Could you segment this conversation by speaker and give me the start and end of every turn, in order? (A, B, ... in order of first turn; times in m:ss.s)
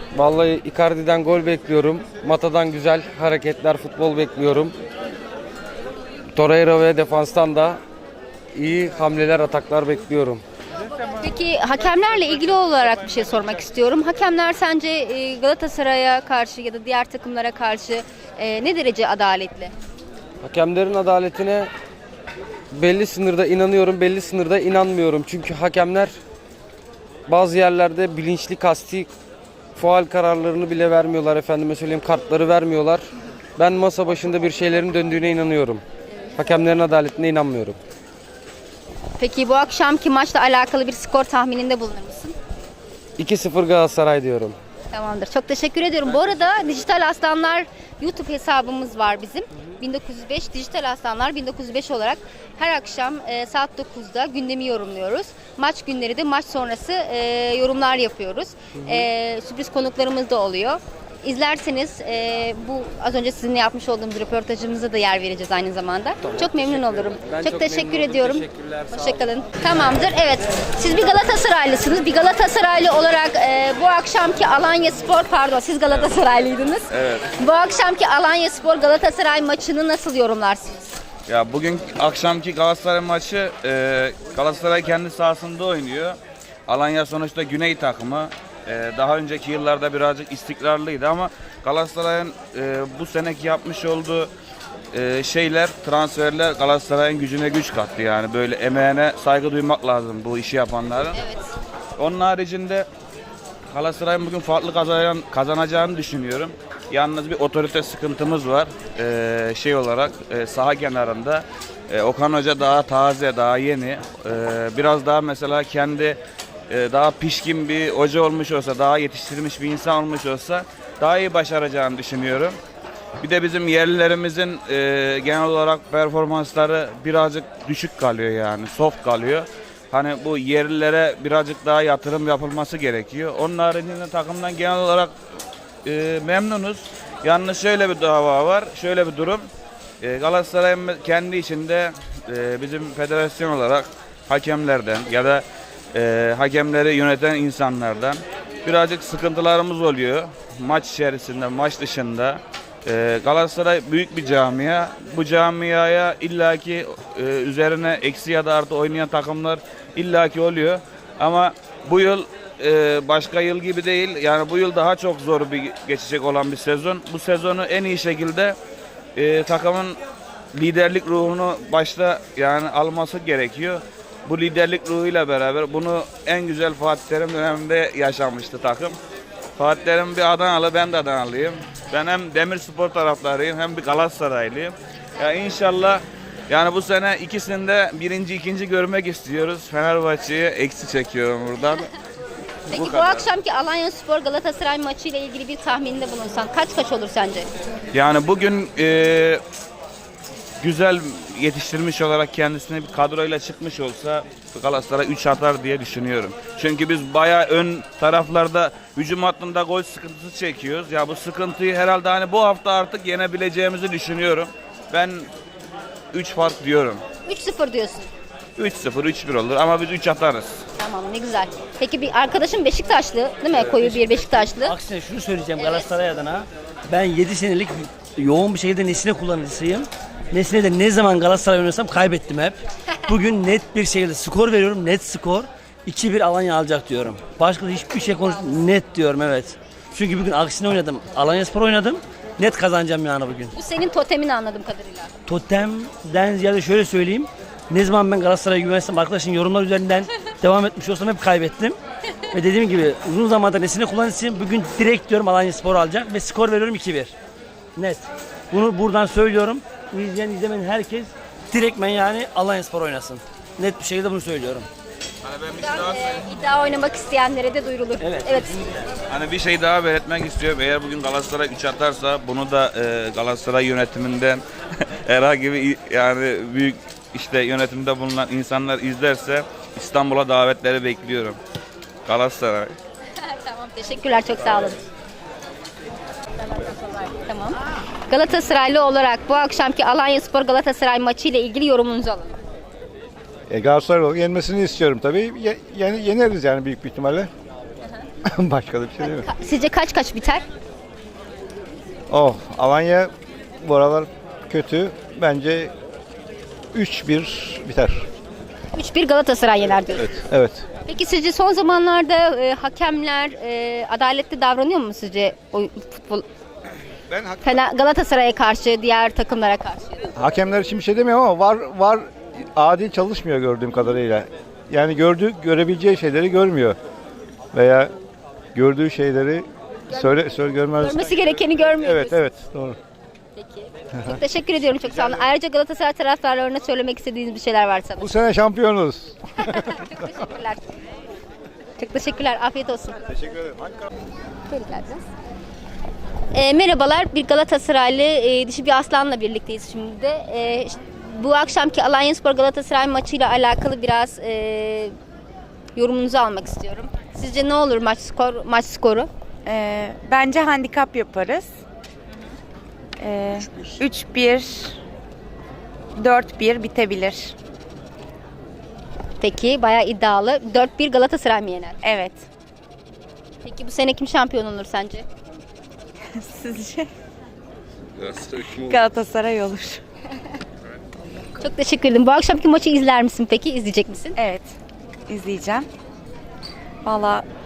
0:00.1-0:04.7 A
0:06.3-0:07.8 A
0:08.5-0:10.4 A
0:11.0-0:19.7 B
0:20.4-0:21.7 A
0:22.7-0:26.1 A
0:27.3-0:29.1 A
0:29.8-0:33.0 A
0:33.6-0:35.8 A
0:36.4-0:37.8 A
0:39.2-0:42.3 B
0:43.2-0:44.6 A
0:44.9-1:21.0 B
0:58.8-0:59.0 A
1:06.2-1:09.2 A
1:16.9-1:17.3 C
1:21.3-1:26.2 C
1:26.7-1:34.3 C
1:34.9-1:41.2 C
1:41.1-1:41.5 B
1:42.0-1:42.9 C
1:43.7-1:56.2 C
1:56.7-2:02.5 C
2:03.2-2:15.1 C
2:15.8-2:19.4 C
2:20.0-2:48.6 C
2:49.2-2:50.0 C
2:50.5-2:58.9 C
2:59.6-3:11.9 C
3:12.7-3:13.2 C
3:12.7-3:17.5 B
3:17.9-3:19.4 C
3:20.6-3:35.3 C
3:36.1-3:37.0 C
3:37.2-3:38.1 B
3:38.6-3:40.6 C
3:40.8-3:44.7 B
3:43.5-4:03.5 D
4:03.5-4:05.1 B
4:05.3-4:11.8 D
4:12.3-4:17.1 D
4:17.8-4:24.7 D
4:25.2-4:26.2 C
4:25.6-4:28.6 B
4:28.0-4:28.9 D
4:29.1-4:34.4 C
4:35.0-4:41.4 C
4:42.0-4:42.7 C
4:43.2-4:44.8 B
4:46.5-4:52.4 B
4:53.5-4:57.3 E
4:58.3-4:59.3 E
4:59.0-5:00.4 B
5:02.1-5:05.7 E
5:06.7-5:08.1 E
5:08.7-5:10.1 B
5:10.0-5:10.6 E
5:10.8-5:16.2 B
5:17.1-5:17.6 E
5:17.4-5:20.1 B
5:20.2-5:26.8 E
5:27.5-5:27.9 E
5:28.5-5:32.8 E
5:29.9-5:30.2 B
5:30.8-5:32.2 B
5:33.4-5:38.1 B
5:34.8-5:35.2 E
5:38.0-5:39.7 E
5:39.4-5:40.6 B
5:41.8-5:43.0 B
5:43.1-5:43.9 E
5:44.5-5:45.0 B
5:46.3-5:54.9 B
5:55.7-5:59.1 B
5:59.4-6:01.5 F
6:03.0-6:04.8 F
6:06.0-6:07.3 F
6:09.2-6:11.8 B
6:11.8-6:12.2 F
6:13.4-6:15.0 B
6:16.1-6:16.9 F
6:18.0-6:19.8 F
6:21.4-6:24.2 B
6:24.2-6:24.5 F
6:25.1-6:25.7 F
6:26.8-6:27.2 F